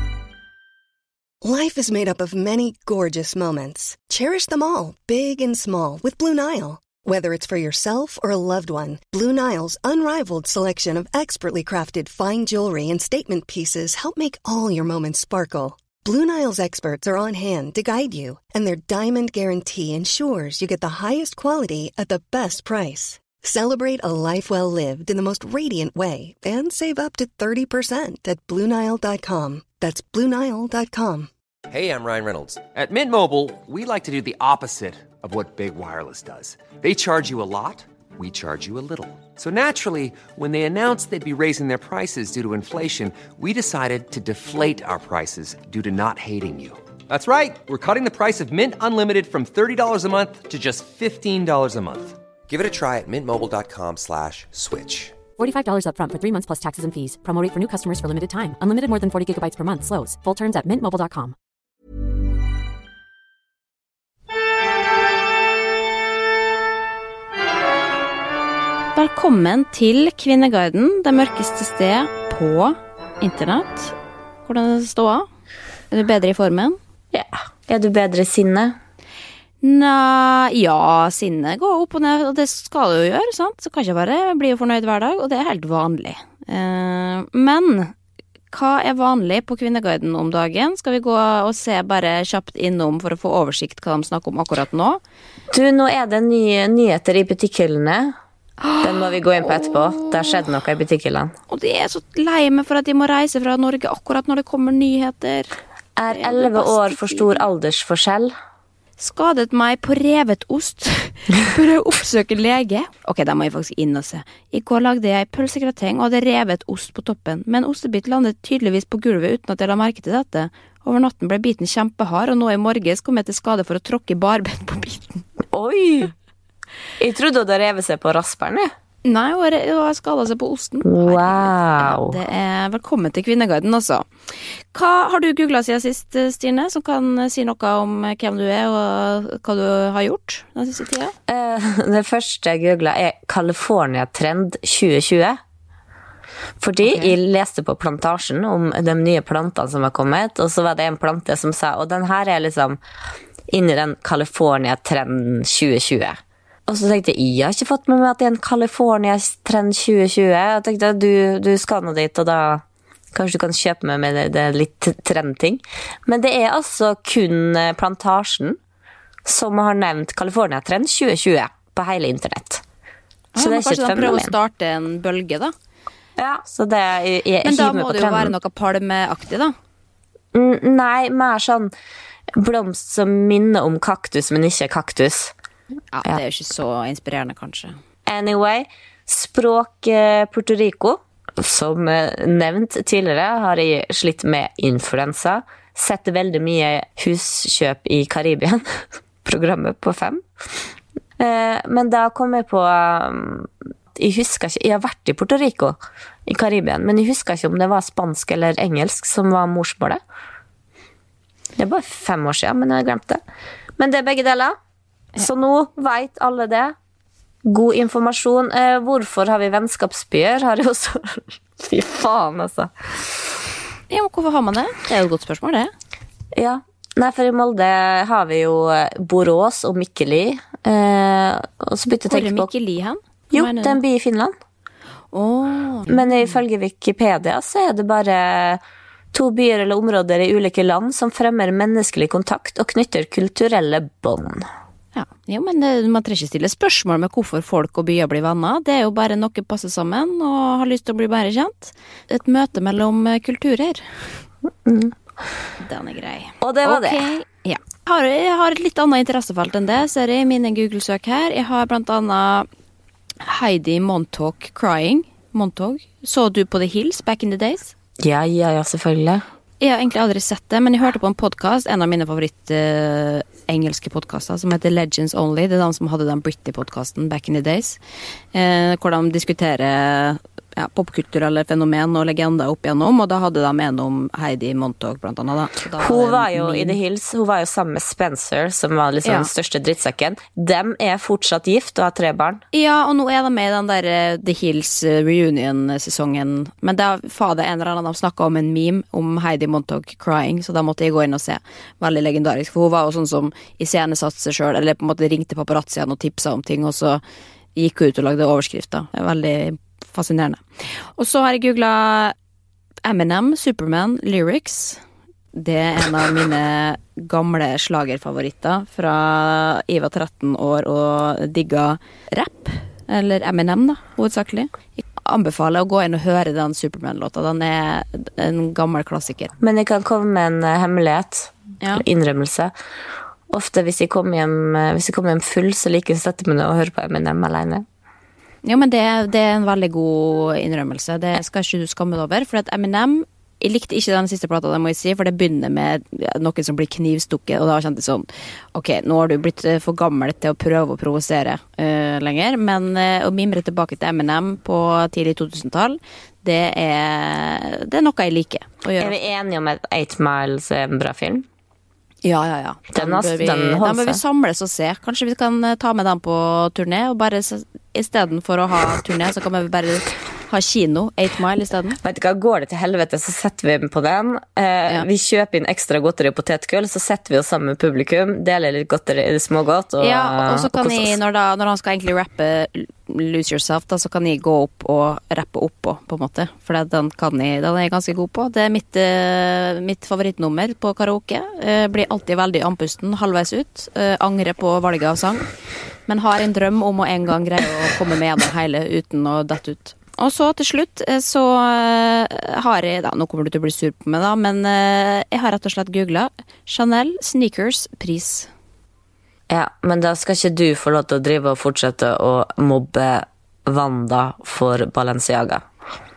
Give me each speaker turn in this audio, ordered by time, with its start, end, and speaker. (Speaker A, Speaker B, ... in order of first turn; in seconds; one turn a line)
Speaker A: 1.4-31.3
Speaker B: 31.7-55.2
Speaker C: 55.4-61.4
Speaker D: 69.0-73.9
Speaker D: 74.5-75.3
Speaker D: 75.9-76.8
Speaker E: 77.1-78.8
Speaker D: 79.6-87.9
Speaker D: 88.5-95.0
Speaker E: 95.5-98.1
Speaker D: 98.6-100.4
Speaker E: 98.8-101.3
Speaker D: 101.5-105.6
Speaker E: 106.0-108.3
Speaker D: 106.1-107.4
Speaker D: 109.0-125.2
Speaker E: 125.5-126.1
Speaker E: 127.0-128.7
Speaker D: 129.0-141.1
Speaker E: 130.8-132.2
Speaker E: 141.3-145.4
Speaker E: 146.6-152.8
Speaker D: 146.8-147.1
Speaker E: 153.5-168.6
Speaker E: 169.2-172.6
Speaker D: 173.3-175.5
Speaker E: 173.3-174.3
Speaker E: 176.2-178.3
Speaker D: 177.4-179.5
Speaker E: 180.3-181.7
Speaker E: 182.3-185.3
Speaker D: 185.9-187.8
Speaker E: 188.1-200.2
Speaker E: 201.2-210.0
Speaker E: 211.6-213.2
Speaker E: 213.8-214.6
Speaker E: 215.2-216.7
Speaker E: 217.4-223.3
Speaker D: 223.9-225.7
Speaker E: 226.3-232.5
Speaker D: 232.1-233.8
Speaker E: 233.3-234.3
Speaker D: 235.1-236.1
Speaker E: 235.9-238.6
Speaker E: 239.1-244.5
Speaker D: 244.9-254.0
Speaker E: 254.7-254.9
Speaker D: 255.6-262.5
Speaker E: 256.4-257.0
Speaker D: 263.2-267.7
Speaker E: 268.0-269.2
Speaker D: 269.6-277.8
Speaker D: 278.3-286.8
Speaker E: 285.8-292.4
Speaker D: 289.0-289.3
Speaker D: 292.5-307.0
Speaker D: 307.6-310.4
Speaker D: 310.9-312.1
Speaker D: 312.8-314.8
Speaker D: 315.3-329.3
Speaker E: 329.4-332.5
Speaker E: 333.3-337.6
Speaker D: 338.4-358.9
Speaker E: 358.8-361.2
Speaker D: 362.0-371.8
Speaker E: 362.7-364.0
Speaker E: 371.8-381.0
Speaker D: 379.8-395.2
Speaker D: 395.9-408.3
Speaker E: 409.3-415.4